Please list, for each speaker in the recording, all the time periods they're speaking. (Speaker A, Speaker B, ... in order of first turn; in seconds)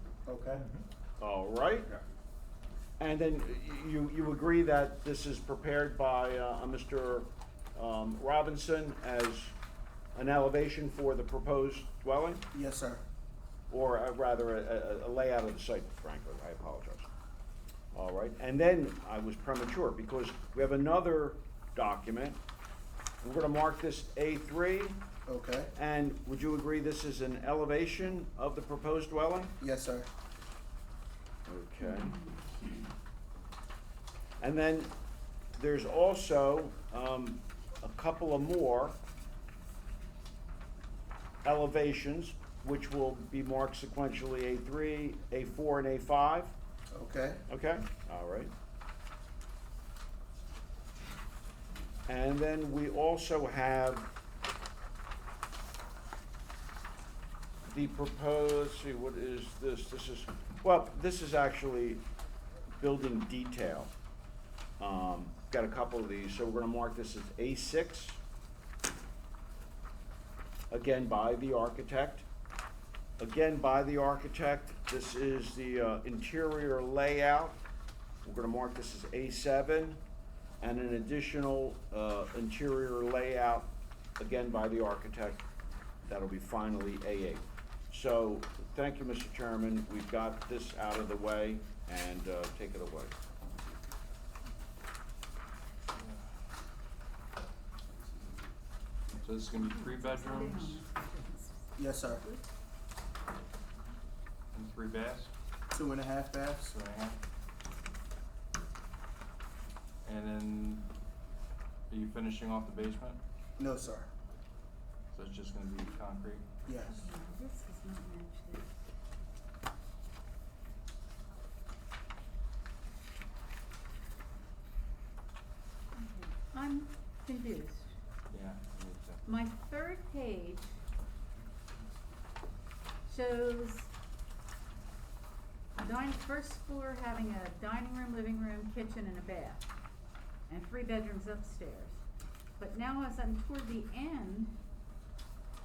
Speaker A: 0.2-0.7, 12.5-13.0, 25.3-25.7, 29.6-30.1, 46.9-47.5, 101.8-102.2, 105.7-106.8, 113.6-114.1, 116.7-117.1
Speaker B: 1.2-1.9, 3.0-9.6, 10.1-12.4, 13.7-17.1, 17.9-22.4, 23.2-25.0, 25.8-29.5, 31.5-32.2, 34.4-34.9, 35.5-39.0, 41.4-46.5, 47.5-48.5, 52.1-54.1, 57.7-62.0, 62.8-63.9, 64.8-68.2, 70.7-72.3, 73.2-77.6, 78.2-80.0, 80.6-85.4, 86.1-93.2
Speaker C: 31.8-32.3, 99.5-102.4, 116.8-118.7, 125.9-127.9, 129.2-130.8, 133.1-133.9, 135.8-139.7, 140.5-142.0, 142.6-144.6
Speaker D: 95.9-96.3, 99.2-100.8, 104.5-105.3, 106.6-107.2, 110.0-110.9, 111.9-113.2, 115.1-116.5, 128.3-129.2